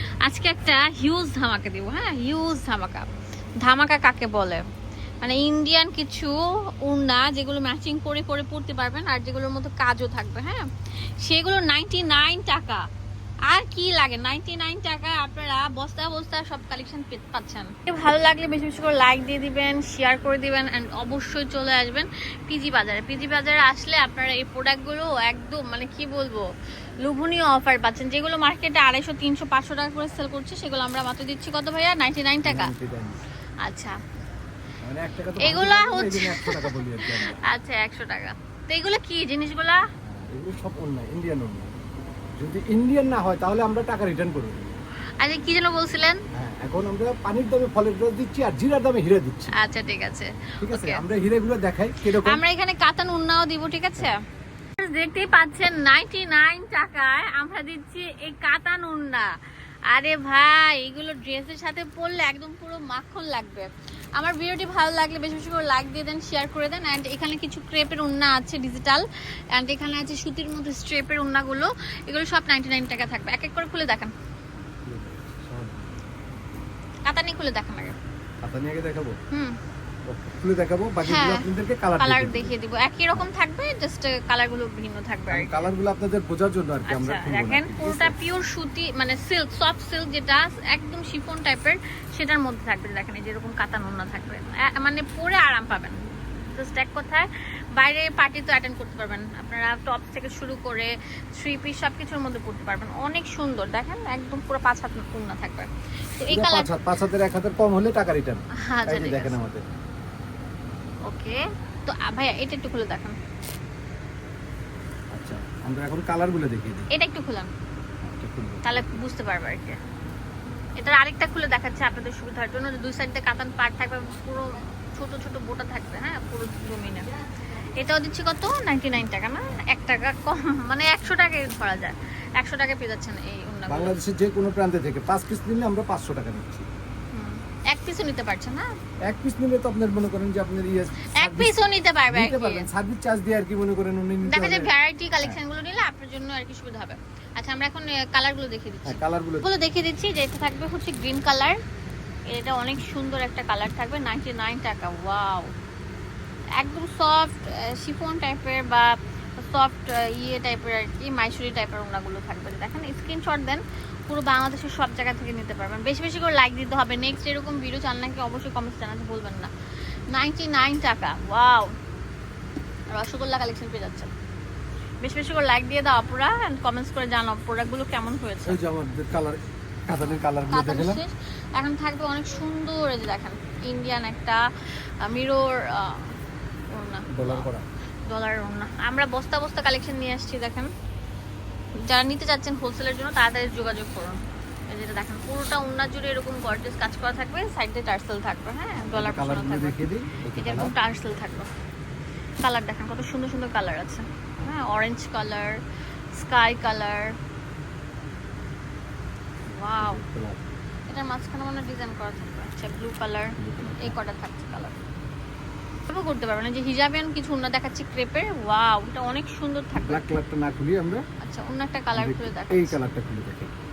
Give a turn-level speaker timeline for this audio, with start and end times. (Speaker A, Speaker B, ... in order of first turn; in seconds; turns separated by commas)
Speaker A: 0.2-3.0, Speaker A: 3.6-4.6, Speaker A: 5.2-10.6, Speaker A: 11.2-12.8, Speaker A: 13.5-26.4, Speaker A: 27.0-32.7, Speaker B: 32.5-33.2, Speaker A: 33.6-34.0, Speaker B: 34.8-37.4, Speaker A: 35.4-39.8, Speaker B: 40.0-41.7, Speaker B: 42.4-44.8, Speaker A: 45.2-46.2, Speaker B: 46.3-49.5, Speaker A: 49.5-51.0, Speaker B: 50.6-52.4, Speaker A: 52.1-54.2, Speaker A: 54.8-59.3, Speaker A: 59.9-74.1, Speaker B: 74.8-75.9, Speaker A: 77.1-78.0, Speaker B: 78.4-79.2, Speaker B: 80.1-82.6, Speaker A: 81.1-81.5, Speaker A: 82.0-85.7, Speaker B: 85.3-88.2, Speaker A: 86.9-96.0, Speaker A: 96.5-106.7, Speaker B: 106.3-109.7, Speaker A: 108.6-109.4, Speaker A: 111.1-113.2, Speaker B: 115.1-116.9, Speaker A: 116.9-117.5, Speaker B: 118.0-118.9, Speaker A: 118.6-119.8, Speaker A: 120.8-127.1, Speaker A: 127.8-134.0, Speaker B: 133.7-136.7, Speaker A: 137.1-138.7, Speaker B: 139.1-141.6, Speaker A: 141.2-142.7, Speaker B: 142.1-145.4, Speaker A: 144.2-151.6, Speaker B: 148.9-149.5, Speaker A: 152.3-155.5, Speaker A: 156.6-169.5, Speaker A: 170.1-171.7, Speaker A: 172.9-174.1, Speaker A: 175.0-178.6, Speaker B: 178.5-179.4, Speaker B: 179.9-181.0, Speaker A: 180.5-184.4, Speaker A: 185.0-186.2, Speaker A: 186.7-187.5, Speaker B: 187.1-187.7, Speaker A: 188.1-190.7, Speaker A: 191.9-201.5, Speaker B: 198.9-200.7, Speaker A: 202.4-205.6, Speaker A: 206.2-207.1, Speaker A: 209.5-210.0, Speaker B: 209.8-210.4, Speaker A: 210.9-214.8, Speaker B: 213.4-214.0, Speaker A: 215.9-220.2, Speaker B: 219.8-221.0, Speaker A: 221.2-222.8, Speaker B: 221.9-223.5